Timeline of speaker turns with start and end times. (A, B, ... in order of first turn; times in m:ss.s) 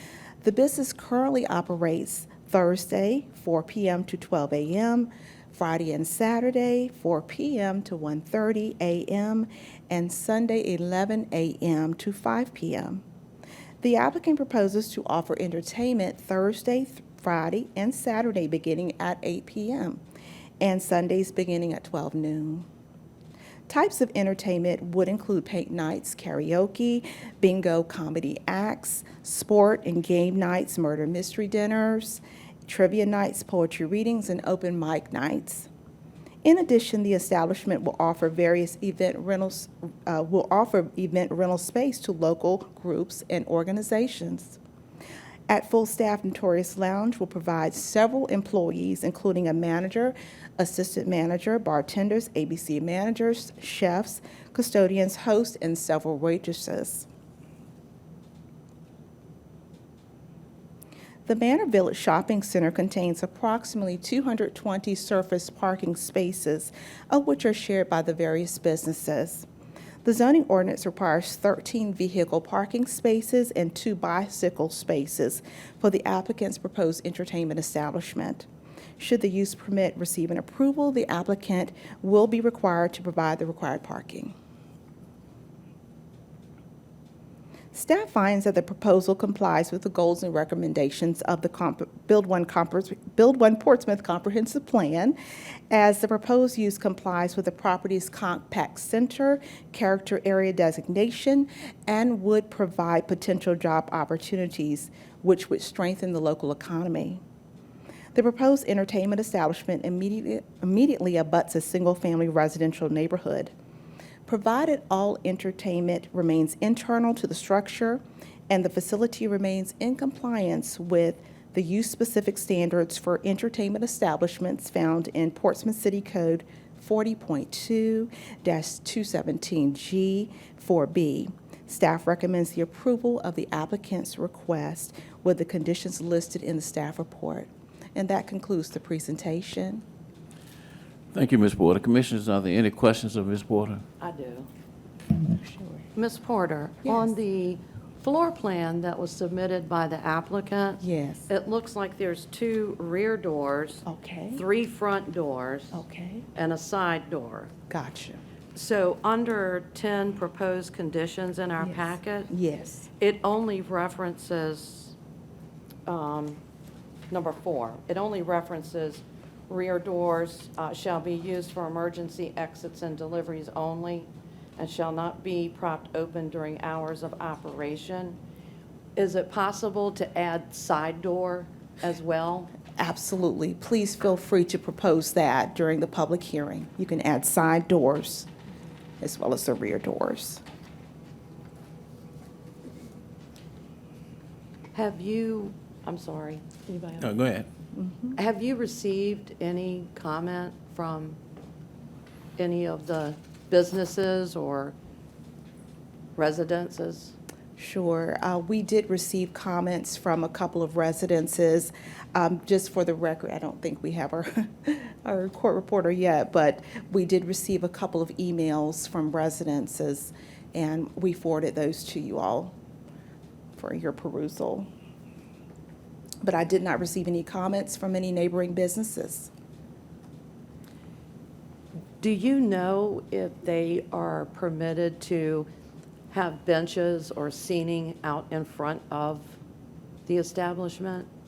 0:00.4-0:13.0 A
0:13.8-0:20.0 A
0:20.6-0:22.7 A
0:23.7-0:35.7 A
0:36.4-0:44.6 A
0:45.5-0:57.1 A
1:01.2-1:09.4 A
1:10.0-1:18.5 A
1:19.0-1:24.3 A
1:27.7-1:35.2 A
1:35.7-1:47.2 A
1:48.1-1:53.5 A
1:54.3-2:19.8 A
2:21.1-2:23.8 B
2:24.0-2:24.5 C
2:25.2-2:25.9 A
2:26.0-2:35.8 C
2:30.8-2:31.3 A
2:33.8-2:34.4 A
2:35.7-2:36.3 A
2:36.3-2:37.5 C
2:37.7-2:38.2 A
2:38.5-2:42.3 C
2:41.6-2:42.9 A
2:43.0-2:44.9 C
2:45.8-2:46.4 C
2:47.1-2:58.2 C
2:59.0-3:02.5 C
3:02.8-3:08.3 A
3:09.0-3:10.4 A
3:14.7-3:17.1 C
3:17.0-3:17.5 B
3:17.8-3:18.1 A
3:18.2-3:21.2 C
3:22.4-3:24.7 C
3:26.2-3:27.1 C
3:27.6-3:42.5 A
3:43.6-3:44.7 A
3:46.2-3:49.3 A
3:52.0-3:55.5 C
3:56.1-3:59.3 C
4:00.1-4:01.1 C